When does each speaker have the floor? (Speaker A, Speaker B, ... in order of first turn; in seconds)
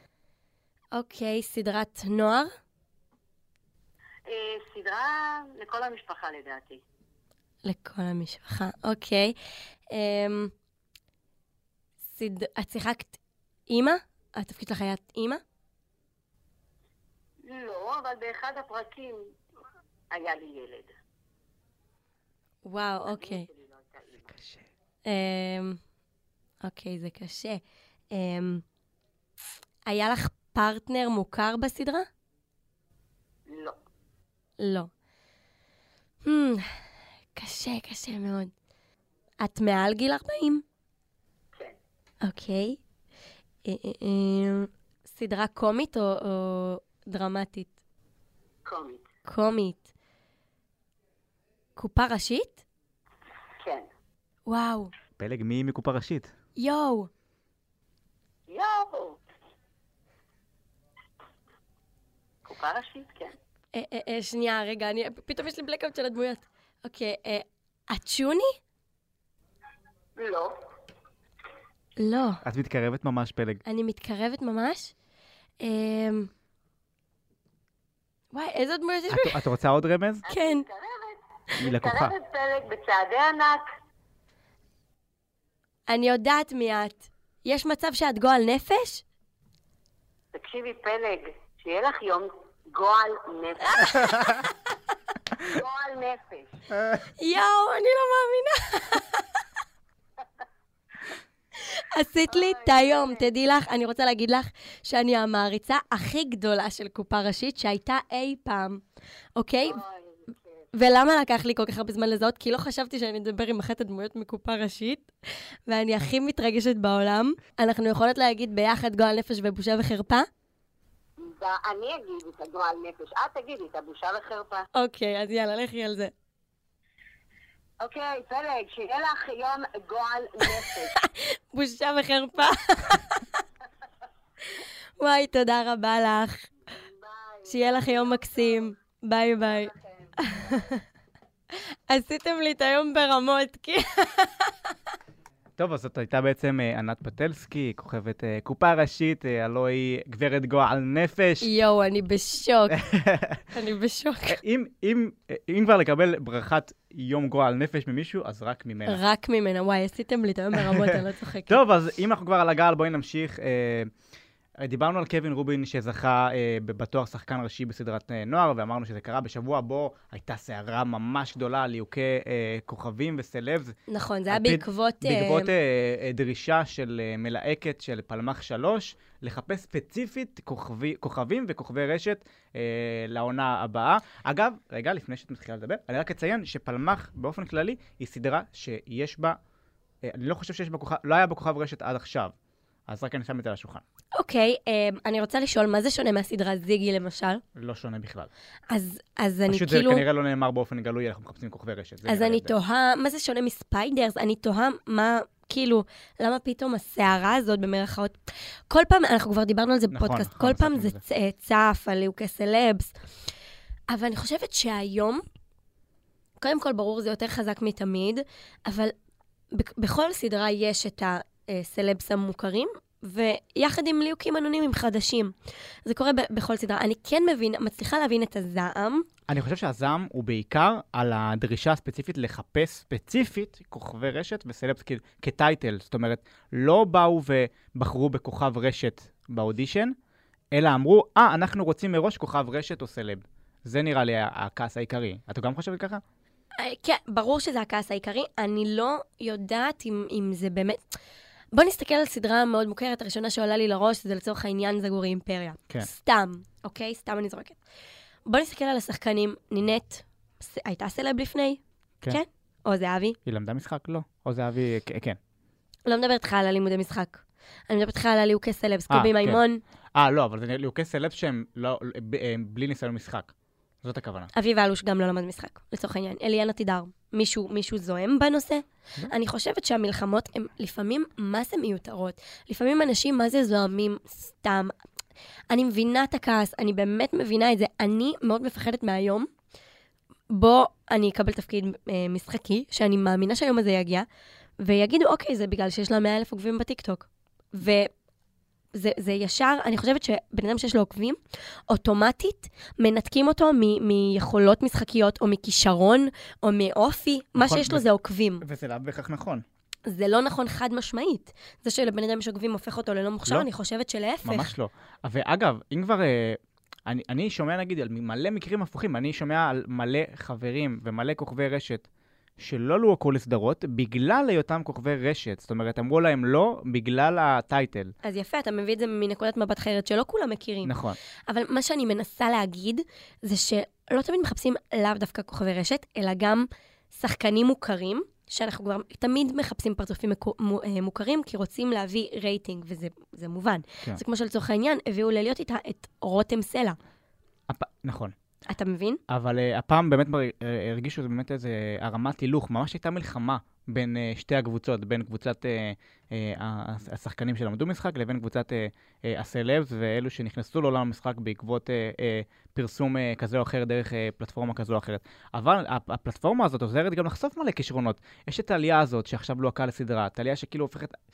Speaker A: 0.9-2.5, 7.6-9.3, 9.9-10.5, 12.1-15.4, 22.6-23.5, 25.1-25.8, 26.6-27.6, 28.1-28.6, 29.9-32.1, 34.6-34.9, 36.2-36.6, 37.3-38.5, 39.4-40.6, 42.2-42.8, 43.6-47.7, 49.2-49.9, 51.8-52.6, 54.5-54.9, 56.6-57.1, 63.7-68.5, 72.0-72.4, 73.7-74.9, 75.6-76.3, 78.3-79.4, 80.3-80.6, 85.9-89.0, 93.8-94.3, 97.2-99.2, 101.5-108.8, 109.3-109.8, 110.7-115.1, 115.7-120.3, 124.7-126.1, 130.4-133.4, 135.0-136.5, 137.4-140.8, 141.5-144.7, 151.4-152.8, 153.5-154.4, 158.8-161.6, 173.9-175.5, 194.2-197.4, 198.7-200.0, 202.1-212.9, 213.9-215.2, 216.4-218.9, 219.5-225.3, 225.8-229.1, 246.6-250.8, 251.5-257.6, 258.2-263.2, 265.9-269.6, 274.3-284.7, 285.5-289.3, 290.3-294.1, 294.6-297.9, 298.7-301.2, 301.7-308.4, 309.9-314.5, 328.0-330.7, 331.3-346.8, 348.5-349.0
Speaker B: 4.3-6.8, 17.4-19.2, 20.1-20.9, 23.0-24.4, 33.5-33.8, 48.6-49.0, 53.6-53.9, 58.5-59.2, 62.5-63.4, 70.2-70.6, 80.2-83.6, 90.3-94.4, 95.4-96.6, 102.3-103.3, 109.7-110.4, 121.2-124.7, 127.8-131.0, 136.8-138.6, 139.4-140.1
Speaker C: 55.2-56.3, 72.4-73.6, 79.1-80.2, 81.6-82.1, 145.6-151.5, 152.7-153.4, 154.3-159.0, 160.5-163.9, 164.6-173.8, 174.3-189.4, 190.0-192.3, 192.9-193.8, 197.5-198.3, 199.5-202.5, 209.9-211.0, 229.3-239.9, 240.5-246.0, 263.2-265.2, 268.9-269.4, 269.9-273.3, 273.8-274.3, 307.4-307.9, 308.4-309.4, 314.2-321.9, 322.4-327.9, 330.6-331.0, 347.5-348.1, 349.1-370.9